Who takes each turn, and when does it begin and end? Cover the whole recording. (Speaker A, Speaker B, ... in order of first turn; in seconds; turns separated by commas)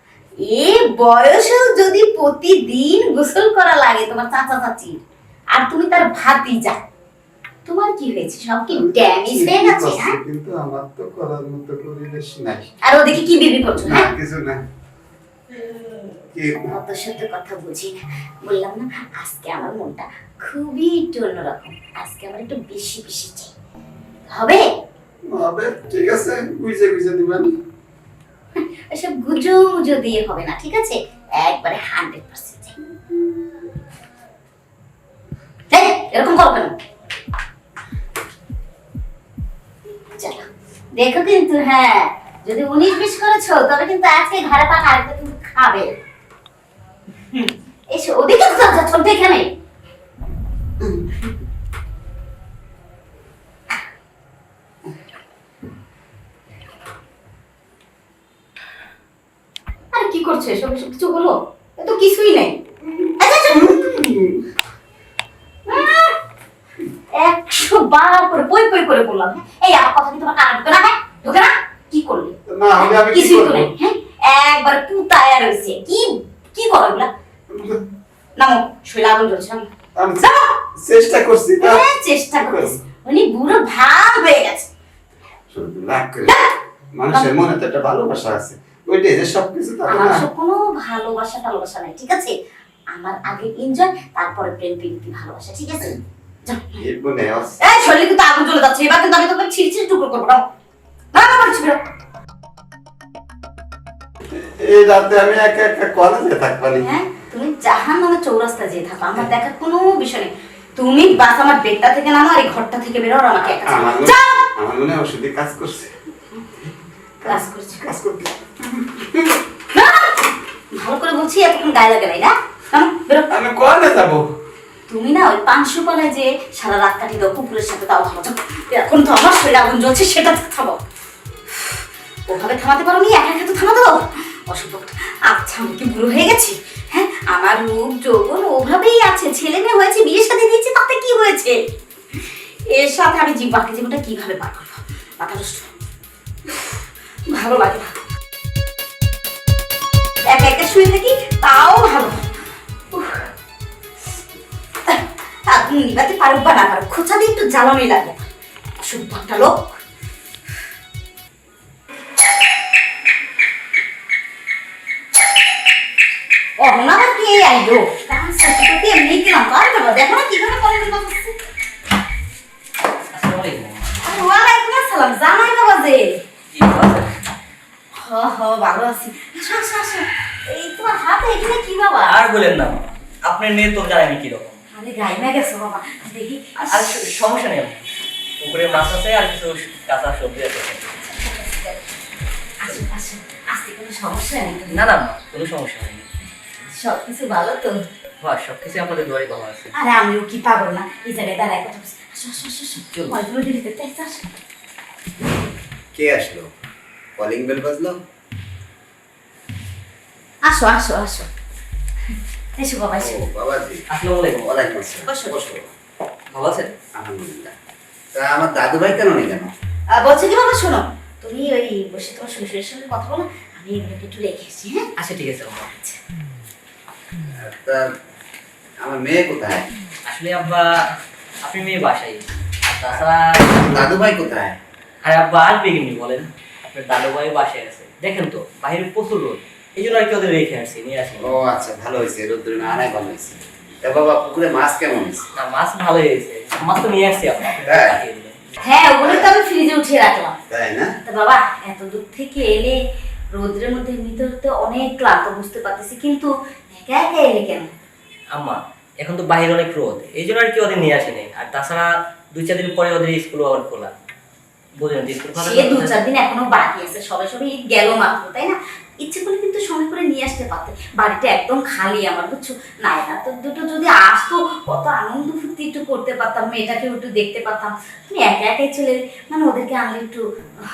Speaker A: 0.4-5.0, Speaker A: 5.5-6.8, Speaker A: 7.7-10.2, Speaker B: 8.7-12.7, Speaker A: 12.8-14.1, Speaker B: 13.8-14.6, Speaker A: 15.5-23.5, Speaker B: 16.4-16.7, Speaker A: 24.3-24.6, Speaker B: 25.3-27.6, Speaker A: 28.6-33.3, Speaker A: 35.7-36.7, Speaker A: 40.2-46.0, Speaker A: 47.3-49.5, Speaker B: 50.8-51.1, Speaker A: 59.9-62.6, Speaker A: 63.2-64.0, Speaker B: 63.5-64.4, Speaker A: 65.7-66.1, Speaker A: 67.1-77.1, Speaker B: 72.5-73.7, Speaker B: 77.5-77.8, Speaker A: 78.4-79.7, Speaker B: 80.0-80.2, Speaker A: 80.2-80.6, Speaker B: 80.8-81.8, Speaker A: 81.6-84.7, Speaker B: 82.4-82.8, Speaker B: 85.5-86.3, Speaker A: 86.3-86.5, Speaker B: 87.0-90.2, Speaker A: 89.9-92.3, Speaker A: 92.9-96.8, Speaker B: 96.8-97.6, Speaker A: 97.6-100.4, Speaker A: 101.1-101.8, Speaker B: 104.3-106.8, Speaker A: 106.8-114.5, Speaker B: 113.5-115.9, Speaker B: 117.2-119.3, Speaker A: 117.2-117.9, Speaker A: 119.7-120.2, Speaker A: 120.7-123.3, Speaker B: 123.3-124.2, Speaker A: 124.9-130.8, Speaker A: 132.3-141.6, Speaker A: 142.2-145.7, Speaker A: 146.5-146.8, Speaker A: 147.3-147.9, Speaker A: 150.2-152.2, Speaker A: 152.9-153.3, Speaker A: 154.9-158.3, Speaker A: 158.8-159.8, Speaker A: 166.6-171.4, Speaker C: 173.1-174.1, Speaker A: 174.0-176.2, Speaker C: 176.5-177.1, Speaker A: 177.9-182.2, Speaker C: 182.1-184.6, Speaker A: 184.7-187.0, Speaker C: 186.6-187.9, Speaker C: 188.4-191.1, Speaker A: 191.2-191.8, Speaker A: 192.6-194.8, Speaker C: 194.7-196.1, Speaker A: 196.7-197.8, Speaker C: 198.2-199.7, Speaker A: 199.8-204.3, Speaker B: 205.9-206.5, Speaker B: 207.2-208.0, Speaker A: 210.4-211.3, Speaker A: 212.6-213.2, Speaker B: 213.0-213.8, Speaker C: 213.9-214.5, Speaker B: 214.4-215.7, Speaker A: 215.0-215.4, Speaker C: 216.3-216.7, Speaker B: 217.0-217.5, Speaker B: 218.2-219.5, Speaker A: 219.9-224.9, Speaker C: 225.0-225.7, Speaker B: 227.4-227.8, Speaker B: 228.8-229.7, Speaker C: 230.1-230.7, Speaker C: 231.4-233.9, Speaker B: 233.6-234.6, Speaker C: 235.1-241.3, Speaker B: 241.2-245.3, Speaker C: 245.4-248.4, Speaker B: 247.7-248.0, Speaker A: 248.6-250.4, Speaker B: 249.0-249.3, Speaker B: 250.5-250.9, Speaker A: 251.0-252.8, Speaker A: 253.3-257.7, Speaker C: 258.3-263.9, Speaker C: 264.8-265.9, Speaker A: 265.4-280.2